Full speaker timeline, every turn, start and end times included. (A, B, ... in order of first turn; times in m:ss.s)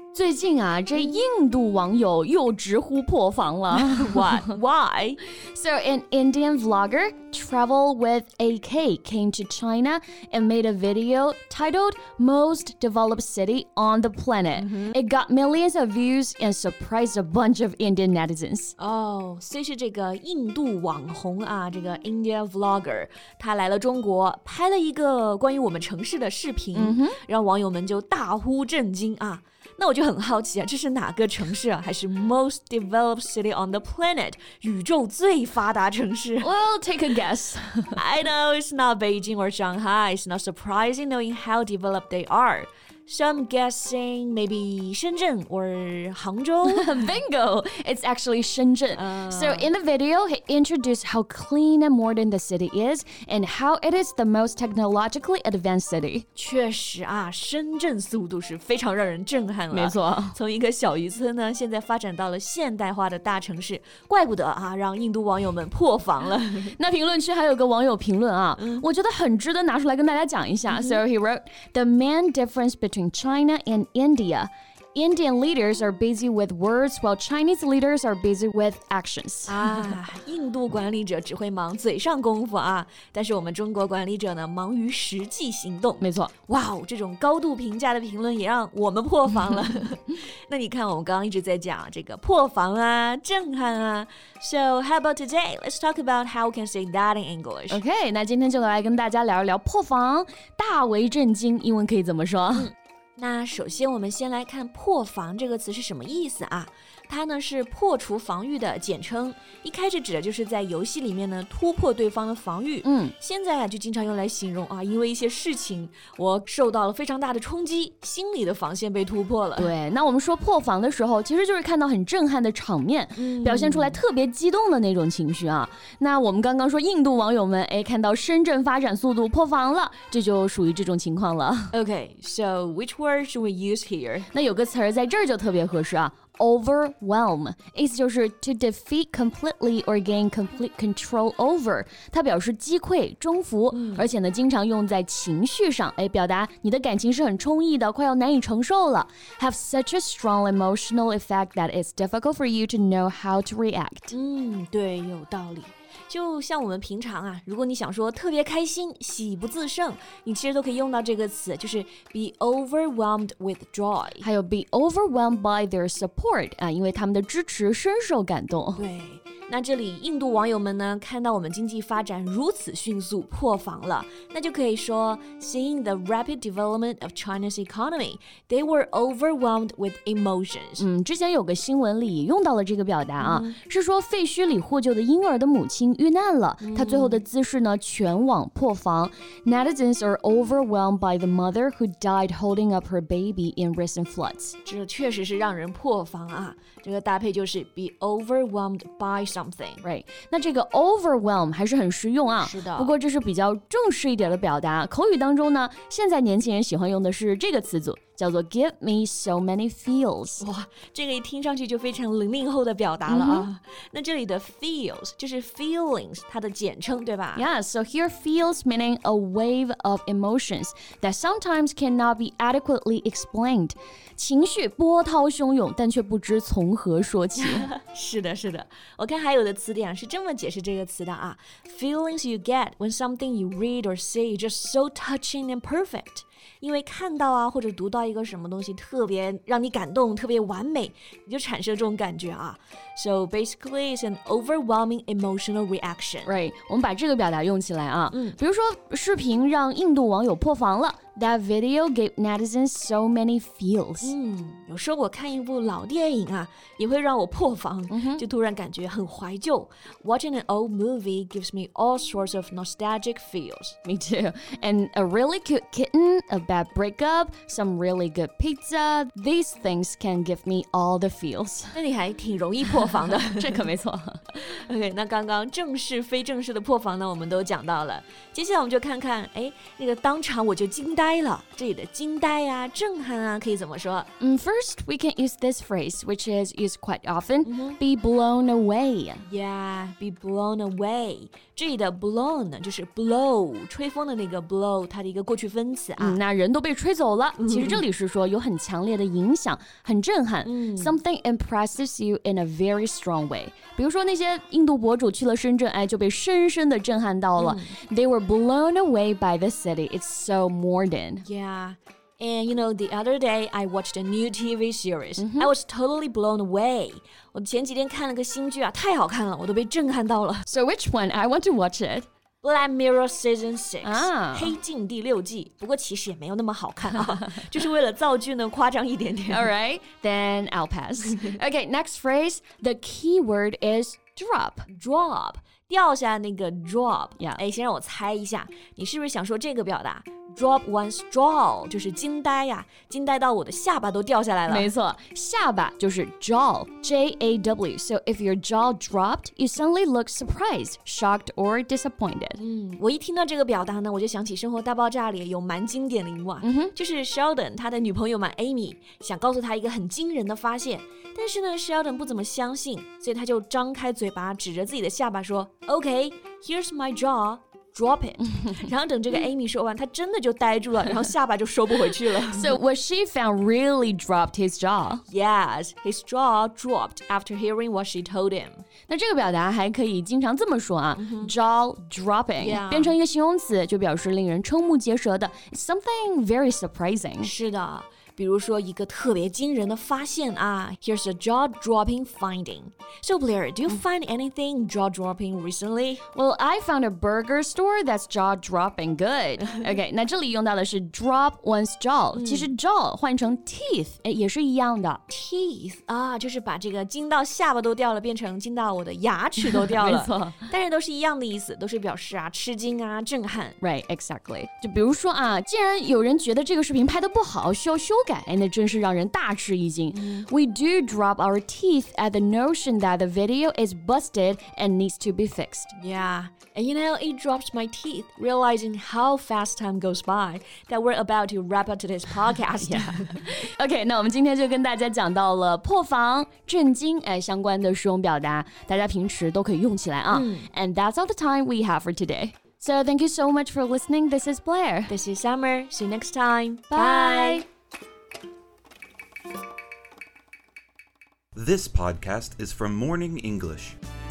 0:00.1-0:04.4 A
0:03.7-0:05.2 B
0:05.4-0:18.7 A
0:14.6-0:15.0 B
0:18.8-0:36.5 B
0:26.7-0:27.2 A
0:36.4-0:38.0 A
0:38.0-0:46.9 B
0:46.6-0:56.2 A
0:48.9-0:49.7 B
0:56.4-1:06.8 B
0:59.7-1:00.4 A
1:06.7-1:20.0 A
1:08.6-1:08.8 B
1:10.7-1:11.0 B
1:19.5-1:37.8 B
1:26.0-1:26.3 A
1:37.7-1:42.7 A
1:42.6-1:59.7 B
1:52.8-1:53.1 A
1:59.6-2:11.7 A
2:03.2-2:04.0 B
2:11.7-2:14.3 B
2:14.3-2:34.2 A
2:23.7-2:24.1 B
2:34.1-2:44.2 B
2:44.2-2:48.8 A
2:48.8-3:00.8 B
3:00.8-3:14.6 A
3:03.2-3:03.6 B
3:06.6-3:07.3 B
3:14.6-3:19.8 B
3:19.8-3:30.4 A
3:22.4-3:23.0 B
3:30.4-3:37.4 B
3:33.1-3:33.5 A
3:37.4-3:47.7 A
3:47.4-4:06.3 B
4:06.2-4:14.1 A
4:08.1-4:08.4 B
4:14.0-4:23.8 B
4:17.9-4:18.2 A
4:23.8-4:31.8 A
4:31.7-4:33.7 B
4:33.2-4:34.2 A
4:34.3-4:44.1 B
4:44.2-4:49.3 A
4:47.4-4:47.8 B
4:49.2-4:56.2 B
4:56.0-5:11.2 A
4:57.4-4:57.8 B
5:00.4-5:01.0 B
5:07.4-5:07.8 B
5:11.2-5:20.4 B
5:15.2-5:15.5 A
5:20.5-5:22.1 A
5:22.4-5:29.5 B
5:23.8-5:24.6 A
5:29.3-5:34.7 A
5:34.7-5:44.7 B
5:44.5-5:52.4 A
5:52.4-6:12.6 B
5:56.4-5:56.7 A
6:12.3-6:15.0 A
6:15.1-6:18.6 B
6:18.9-6:27.3 A
6:21.0-6:21.3 B
6:22.4-6:23.0 B
6:27.2-6:36.0 B
6:36.1-6:45.0 A
6:42.1-6:42.5 B
6:45.1-6:53.6 B
6:49.5-6:50.4 A
6:53.6-7:05.7 A
6:59.9-7:00.3 B
7:05.7-7:13.3 B
7:12.6-7:24.9 A
7:20.1-7:20.5 B
7:24.9-7:27.4 B
7:26.7-7:27.4 A
7:31.4-7:33.8 C